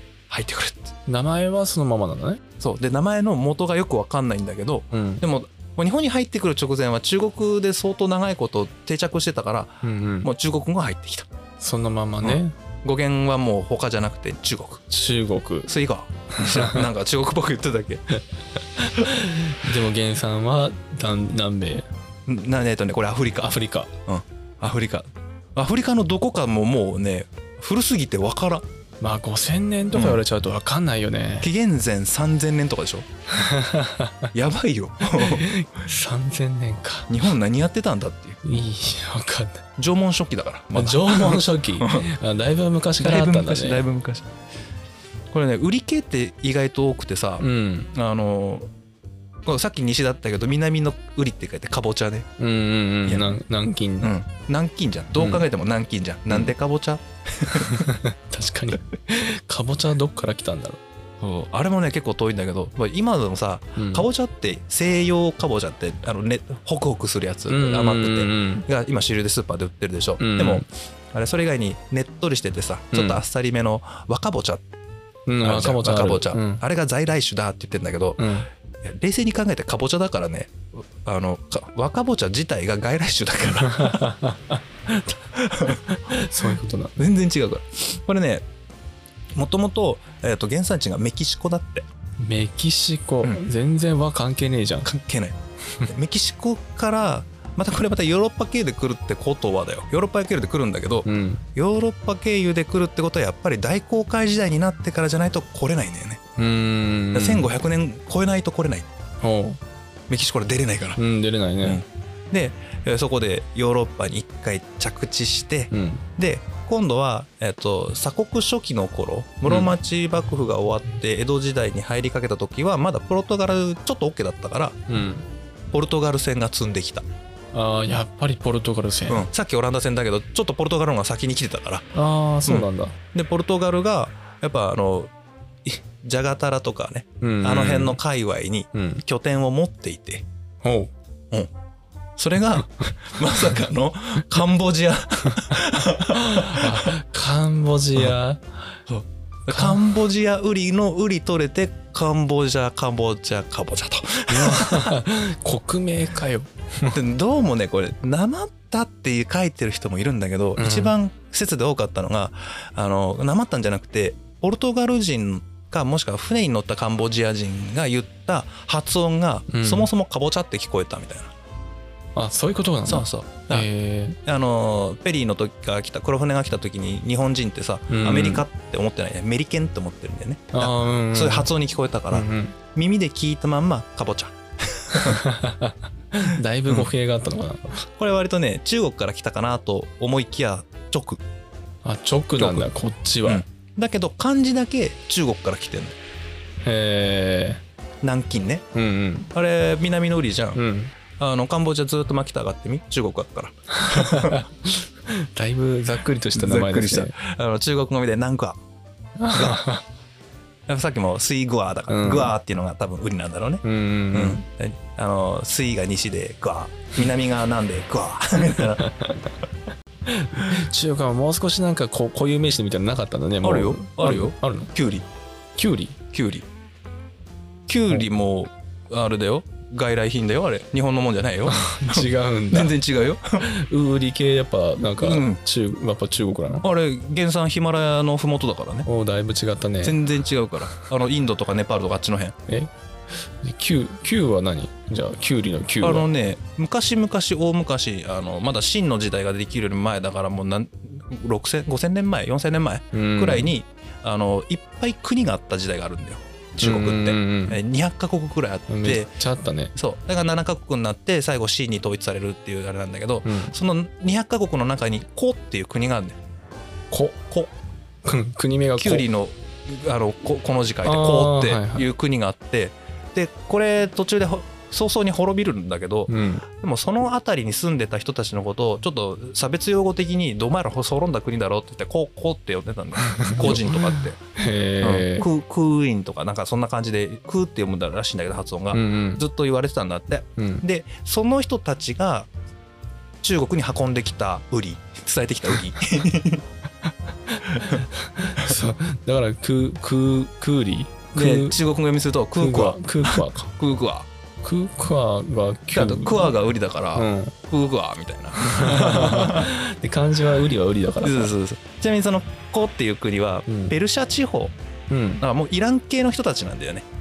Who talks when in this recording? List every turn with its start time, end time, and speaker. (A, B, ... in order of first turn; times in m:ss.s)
0:00.3-0:00.9 A
0:01.1-0:02.4 B
0:02.6-0:11.3 A
0:04.9-0:05.2 B
0:09.8-0:10.3 B
0:11.6-0:12.5 B
0:12.2-0:14.8 A
0:14.9-0:15.7 B
0:15.7-0:18.0 A
0:16.4-0:16.8 B
0:18.8-0:21.9 B
0:22.2-0:23.5 A
0:23.4-0:23.9 B
0:24.1-0:28.6 A
0:29.0-0:31.5 B
0:29.9-0:30.2 A
0:31.4-0:33.1 A
0:33.3-0:34.3 B
0:34.3-0:35.5 A
0:35.0-0:37.1 B
0:37.1-0:38.4 A
0:38.4-0:39.6 B
0:39.8-0:42.0 A
0:40.7-0:43.8 B
0:43.0-0:44.3 A
0:45.3-0:48.7 A
0:47.4-0:47.9 B
0:49.4-0:52.3 A
0:52.4-0:54.1 B
0:53.0-0:53.3 A
0:54.0-0:57.9 A
0:55.2-0:55.4 B
0:57.5-1:00.8 B
1:01.2-1:14.6 A
1:03.8-1:04.1 B
1:07.5-1:08.6 B
1:10.2-1:10.6 B
1:12.9-1:13.2 B
1:15.3-1:16.6 B
1:15.4-1:18.2 A
1:18.2-1:18.5 B
1:18.8-1:24.1 A
1:23.7-1:25.0 B
1:25.3-1:28.4 A
1:25.9-1:27.0 B
1:29.3-1:31.8 A
1:32.2-1:34.9 B
1:34.8-1:46.2 A
1:41.0-1:41.4 B
1:46.4-1:47.5 B
1:47.1-1:48.9 A
1:49.2-1:49.6 B
1:50.1-1:51.0 A
1:51.0-1:51.8 B
1:51.6-2:04.8 A
1:55.7-1:56.0 B
1:59.5-1:59.7 B
2:04.9-2:05.2 B
2:05.7-2:07.0 A
2:07.5-2:09.2 B
2:09.1-2:11.9 A
2:11.9-2:13.0 B
2:12.4-2:15.1 A
2:15.6-2:20.2 A
2:17.2-2:18.0 B
2:18.7-2:19.0 B
2:20.6-2:20.9 B
2:22.2-2:26.9 A
2:26.1-2:28.7 B
2:28.9-2:35.0 A
2:29.5-2:29.8 B
2:34.3-2:37.0 B
2:36.9-2:51.3 A
2:40.6-2:40.9 B
2:49.5-2:49.9 B
2:52.2-2:54.2 B
2:52.8-2:53.7 A
2:54.2-3:05.2 A
2:57.9-2:58.4 B
3:00.5-3:01.5 B
3:02.1-3:02.6 B
3:04.9-3:07.8 B
3:08.0-3:11.2 A
3:11.8-3:13.4 B
3:12.4-3:12.7 A
3:13.2-3:16.0 A
3:16.6-3:17.6 B
3:18.0-3:18.6 A
3:18.7-3:19.3 B
3:19.3-3:20.6 A
3:20.5-3:20.9 B
3:21.2-3:24.4 A
3:23.7-3:27.1 B
3:26.3-3:28.6 A
3:29.2-3:29.8 B
3:29.3-3:29.6 A
3:30.7-3:38.9 A
3:31.9-3:32.3 B
3:33.6-3:34.4 B
3:38.8-3:39.2 B
3:40.0-3:44.7 B
3:43.4-3:45.0 A
3:45.6-3:46.0 B
3:46.1-3:46.5 A
3:47.7-3:53.5 A
3:51.5-3:52.7 B
3:53.4-3:56.6 B
3:55.0-3:55.4 A
3:56.6-3:58.9 A
3:58.8-4:00.0 B
3:59.8-4:02.4 A
4:03.4-4:06.1 B
4:05.8-4:19.1 A
4:12.9-4:13.5 B
4:16.6-4:17.6 B
4:18.7-4:19.7 B
4:19.8-4:26.2 A
4:23.2-4:23.5 B
4:26.9-4:27.3 B
4:28.0-4:29.0 B
4:28.8-4:44.2 A
4:30.8-4:31.9 B
4:36.1-4:36.4 B
4:43.0-4:45.3 B
4:44.8-4:52.3 A
4:48.7-4:49.2 B
4:50.4-4:50.6 B
4:53.2-4:56.4 A
4:57.3-5:01.6 B
4:57.5-4:57.8 A
5:01.1-5:04.1 A
5:02.4-5:03.5 B
5:04.4-5:06.4 B
5:05.7-5:09.5 A
5:07.0-5:07.3 B
5:08.4-5:11.3 B
5:11.0-5:14.5 A
5:13.5-5:13.7 B
5:14.9-5:15.2 B
5:15.2-5:16.8 A